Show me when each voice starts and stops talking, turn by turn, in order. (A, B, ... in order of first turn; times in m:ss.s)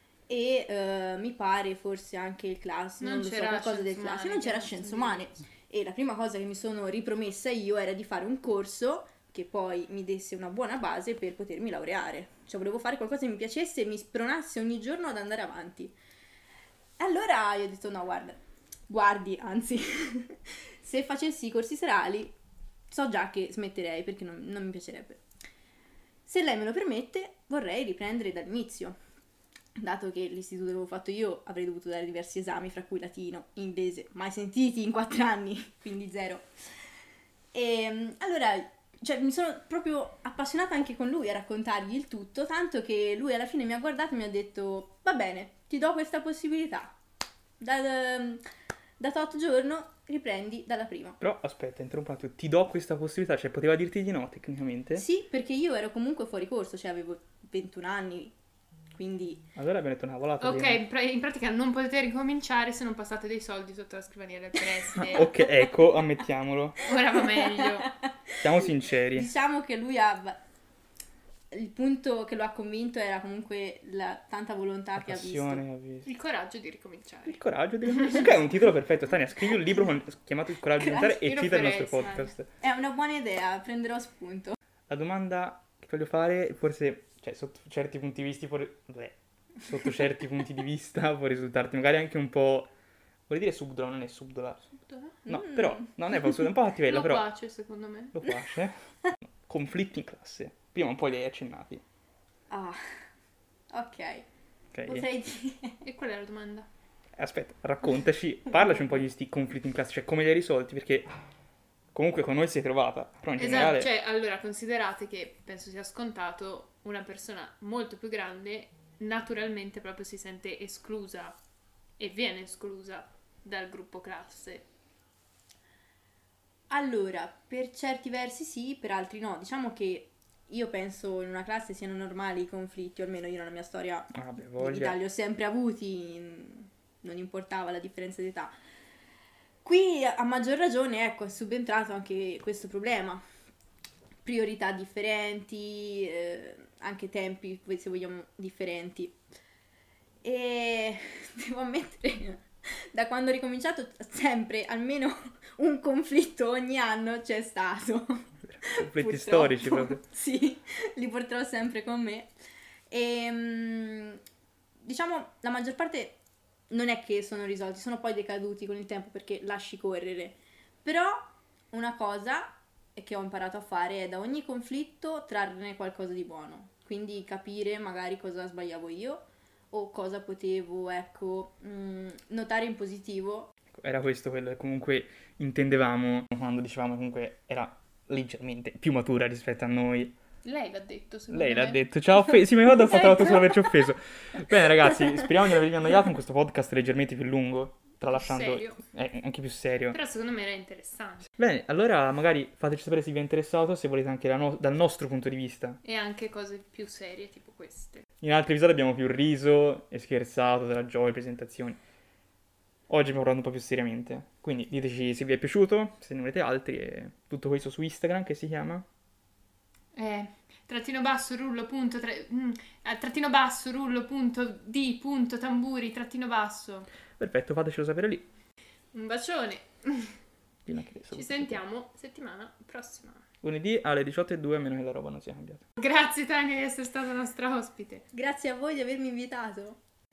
0:00.3-0:15.9 A
0:03.0-0:05.2 B
0:17.0-0:22.3 A
0:22.9-0:25.2 A
0:26.2-0:29.0 A
0:29.8-0:36.5 A
0:37.5-0:46.9 A
0:47.6-0:48.4 A
0:49.0-0:51.2 A
0:51.2-0:55.0 C
0:55.0-0:58.3 A
0:59.0-0:59.5 A
0:59.6-1:00.8 C
1:00.4-1:05.4 B
1:05.0-1:06.8 C
1:06.8-1:07.9 B
1:07.4-1:07.7 A
1:08.4-1:09.3 C
1:08.6-1:10.4 A
1:11.5-1:15.6 A
1:15.0-1:16.1 C
1:16.0-1:18.3 B
1:17.3-1:22.5 C
1:20.8-1:22.3 B
1:22.6-1:24.6 A
1:24.9-1:32.7 C
1:33.3-1:34.6 C
1:34.7-1:35.2 B
1:35.2-1:37.2 C
1:35.3-1:36.0 A
1:36.8-1:38.2 B
1:38.1-1:38.8 C
1:39.4-1:41.8 C
1:42.5-1:42.8 A
1:43.7-1:44.2 A
1:44.7-1:45.1 C
1:44.9-1:45.8 A
1:45.8-1:46.7 B
1:47.2-1:51.1 C
1:51.9-1:53.9 C
1:53.4-2:01.4 B
2:02.0-2:04.7 B
2:06.7-2:18.5 A
2:14.1-2:15.0 C
2:19.6-2:23.2 A
2:24.2-2:29.2 A
2:30.2-2:42.3 A
2:38.4-2:40.0 C
2:42.9-2:44.2 A
2:44.8-2:46.2 A
2:46.7-3:03.5 A
3:03.8-3:10.2 C
3:10.4-3:11.8 B
3:11.3-3:20.0 C
3:18.1-3:18.8 B
3:19.9-3:21.3 B
3:21.4-3:25.8 C
3:25.8-3:28.0 B
3:28.2-3:31.8 C
3:32.9-3:38.9 C
3:39.9-3:46.9 B
3:47.2-3:48.3 C
3:48.9-3:50.1 B
3:50.6-3:51.6 C
3:51.1-3:53.2 B
3:53.4-3:55.6 C
3:55.8-3:58.0 B
3:58.1-3:59.8 A